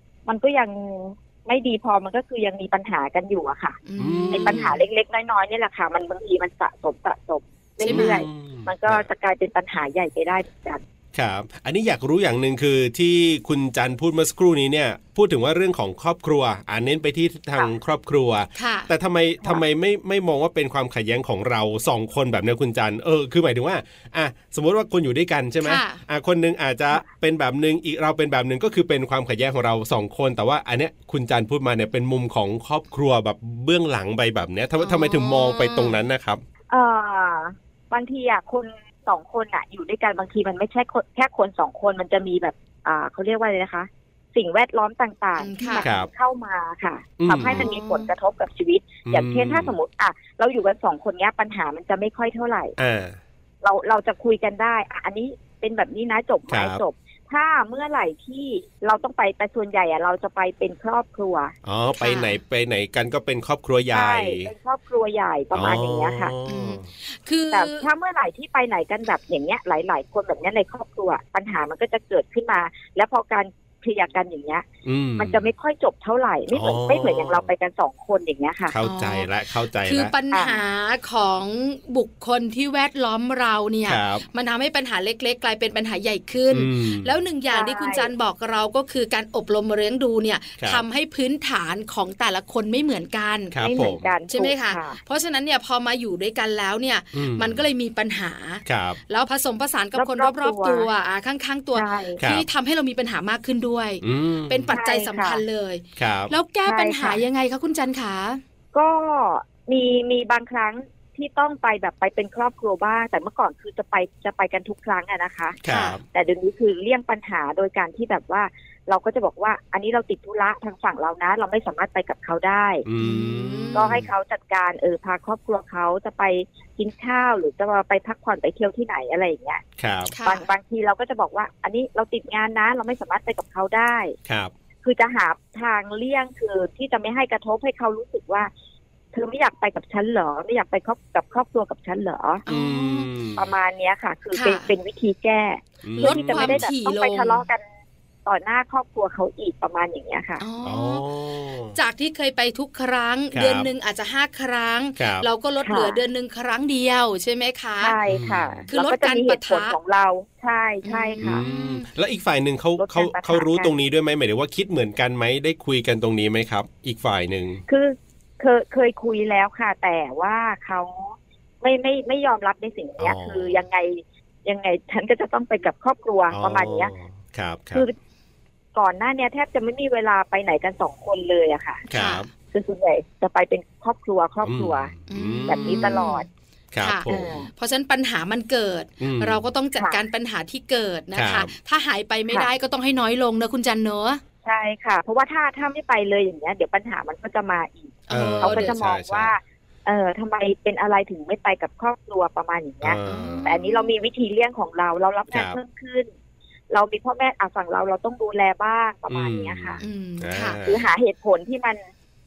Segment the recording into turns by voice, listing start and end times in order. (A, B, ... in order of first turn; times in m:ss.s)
0:00.3-0:03.8 A
0:03.9-0:04.8 B
0:04.0-0:04.7 C
0:04.3-0:10.8 A
0:07.8-0:08.2 B
0:07.9-0:09.1 C
0:11.2-0:36.4 C
0:18.6-0:18.9 B
0:25.6-0:26.0 B
0:34.8-0:36.0 B
0:36.7-0:52.8 A
0:45.4-0:45.9 B
0:45.8-0:46.1 C
0:47.2-0:47.7 C
0:47.4-0:48.1 B
0:49.1-0:49.8 C
0:52.8-0:53.2 C
0:53.6-1:01.5 A
0:56.5-0:56.8 C
1:01.6-1:04.5 C
1:02.0-1:02.4 B
1:03.9-1:06.3 A
1:05.5-1:06.8 C
1:06.5-1:07.9 B
1:07.5-1:14.7 A
1:14.8-1:15.5 C
1:15.2-1:18.8 A
1:16.5-1:17.5 C
1:18.7-1:20.1 C
1:18.8-1:19.3 B
1:19.8-1:33.6 B
1:20.3-1:20.6 A
1:23.9-1:24.3 C
1:26.5-1:27.1 C
1:27.5-1:28.1 A
1:33.5-1:34.1 C
1:33.6-1:35.0 A
1:34.3-1:48.4 B
1:37.1-1:37.6 C
1:38.7-1:39.0 C
1:40.0-1:40.9 A
1:41.8-1:42.2 A
1:42.2-1:42.5 C
1:44.0-1:44.7 C
1:44.7-1:45.4 A
1:46.0-1:46.3 C
1:46.7-1:47.2 A
1:48.7-1:55.6 A
1:55.6-1:56.0 C
1:55.7-1:56.0 B
1:56.1-2:02.9 A
2:02.9-2:04.0 C
2:03.0-2:04.1 B
2:03.8-2:09.6 A
2:09.8-2:10.1 C
2:10.1-2:10.5 B
2:10.2-2:14.2 A
2:14.8-2:18.5 A
2:19.1-2:22.4 A
2:22.5-2:23.1 B
2:22.5-2:23.5 C
2:23.4-2:27.6 A
2:24.3-2:24.7 B
2:25.8-2:26.6 C
2:26.0-2:27.4 B
2:28.3-2:30.4 A
2:30.4-2:31.0 B
2:30.6-2:31.8 C
2:31.7-2:38.0 B
2:33.3-2:33.7 C
2:35.0-2:35.3 C
2:35.6-2:36.0 A
2:37.8-2:41.4 A
2:38.1-2:38.7 C
2:38.7-2:39.8 B
2:40.8-2:41.9 B
2:41.2-2:47.6 C
2:42.8-2:43.7 A
2:47.7-2:56.9 A
2:53.0-2:53.6 C
2:56.3-2:57.9 C
2:58.8-3:01.8 A
3:01.9-3:02.3 B
3:01.9-3:02.3 C
3:02.5-3:04.9 A
3:04.4-3:06.0 C
3:05.1-3:06.3 B
3:05.5-3:06.3 A
3:06.7-3:07.5 C
3:06.8-3:14.2 B
3:07.1-3:07.5 A
3:09.0-3:09.4 C
3:11.2-3:11.5 C
3:14.4-3:26.1 A
3:18.1-3:18.8 B
3:18.1-3:19.3 C
3:22.8-3:23.6 C
3:23.1-3:23.9 B
3:25.3-3:25.6 C
3:26.7-3:29.8 A
3:29.1-3:30.9 C
3:29.8-3:30.6 B
3:30.7-3:31.8 A